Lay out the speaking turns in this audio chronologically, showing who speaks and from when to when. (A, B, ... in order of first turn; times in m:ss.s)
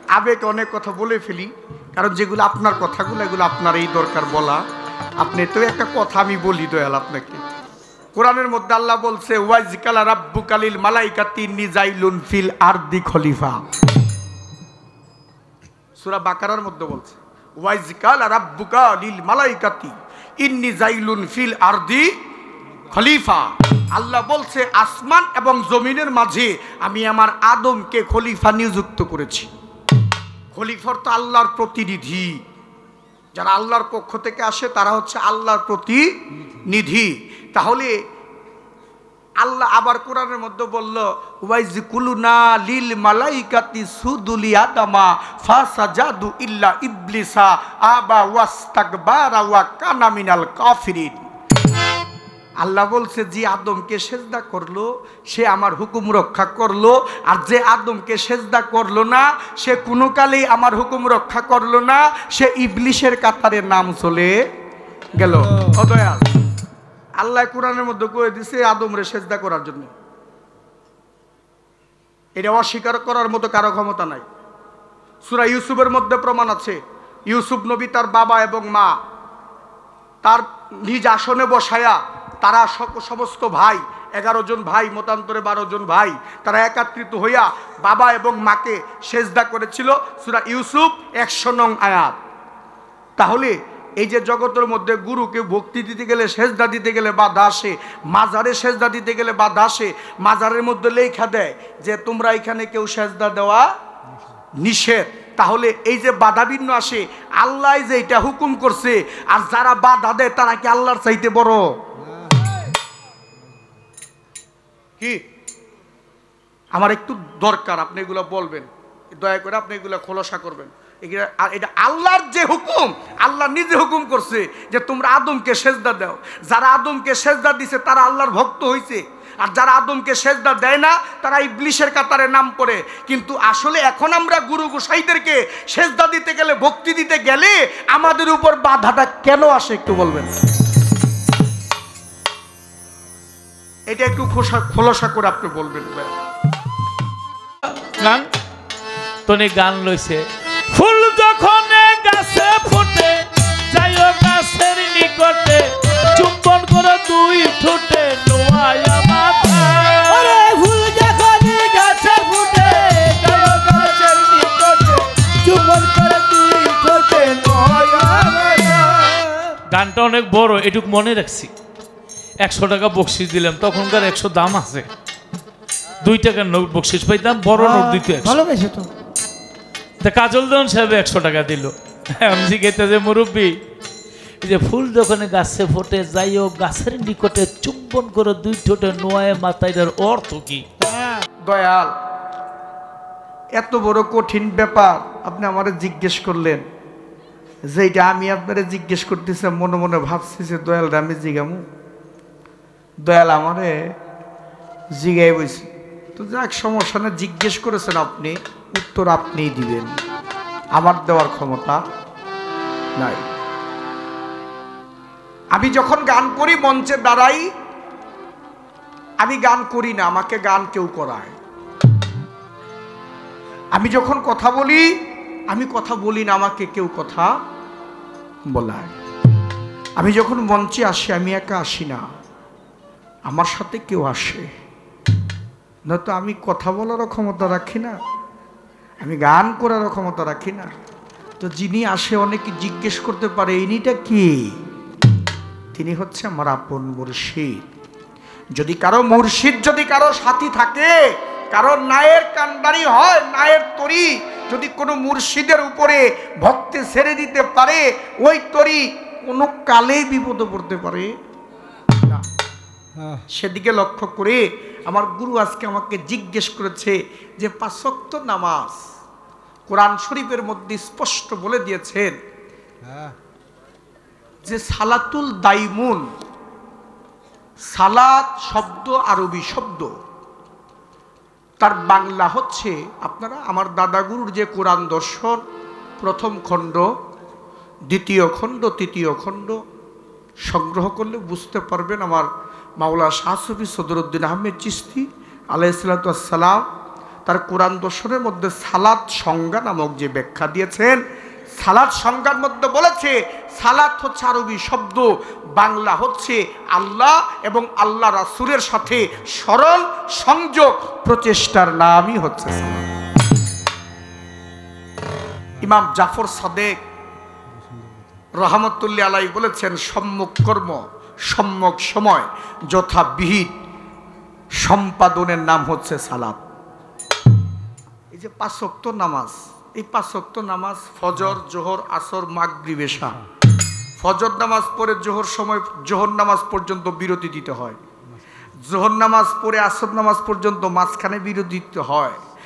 0:00.1-0:04.6 A
0:05.2-0:07.4 A
0:08.2-0:13.6 A
0:16.0-0:22.1 A
0:22.9-0:29.5 A
0:30.5-0:32.4 A
0:33.4-0:36.1 A
0:36.7-0:38.0 A
0:39.4-0:51.2 A
0:52.6-1:04.4 A
1:05.1-1:06.3 A
1:07.2-1:09.9 A
1:12.4-1:14.2 A
1:15.2-1:18.9 A
1:20.2-1:32.2 A
1:33.2-1:43.7 A
1:44.6-1:51.6 A
1:56.7-2:20.3 A
2:23.9-2:26.1 A
2:28.0-2:28.3 B
2:29.3-2:35.6 B
2:36.2-2:40.3 B
2:40.1-2:49.3 C
2:49.7-2:51.5 B
2:52.4-2:54.9 B
2:56.0-2:58.4 B
2:57.6-2:58.9 C
3:00.0-3:03.5 B
3:04.4-3:10.6 B
3:11.4-3:11.9 A
3:13.6-3:16.7 A
3:17.7-3:21.6 A
3:23.0-3:23.8 A
3:25.0-3:30.0 A
3:30.7-3:31.8 A
3:33.0-3:33.3 A
3:35.5-3:37.5 A
3:39.2-3:41.4 A
3:43.7-3:44.9 A
3:45.5-3:47.3 A
3:48.5-3:48.9 A
3:50.0-3:52.0 A
3:53.3-3:54.5 A
3:55.9-3:58.0 A
3:59.0-4:00.7 A
4:01.4-4:04.5 A
4:05.8-4:07.6 A
4:08.6-4:10.9 A
4:11.5-4:21.1 A
4:23.0-4:23.2 C
4:23.3-4:28.8 A
4:29.7-4:32.1 A
4:32.8-4:33.1 C
4:34.4-4:36.1 A
4:37.7-4:39.9 A
4:41.6-4:45.4 A
4:46.0-4:46.9 A
4:47.9-4:49.6 A
4:50.5-4:52.3 A
4:52.8-4:56.6 A
4:57.3-5:01.0 A
5:01.6-5:12.8 A
5:15.6-5:16.8 A
5:17.5-5:18.1 C
5:18.4-5:23.5 A
5:24.6-5:26.4 A
5:28.1-5:33.2 A
5:34.0-5:37.8 A
5:38.7-5:42.2 A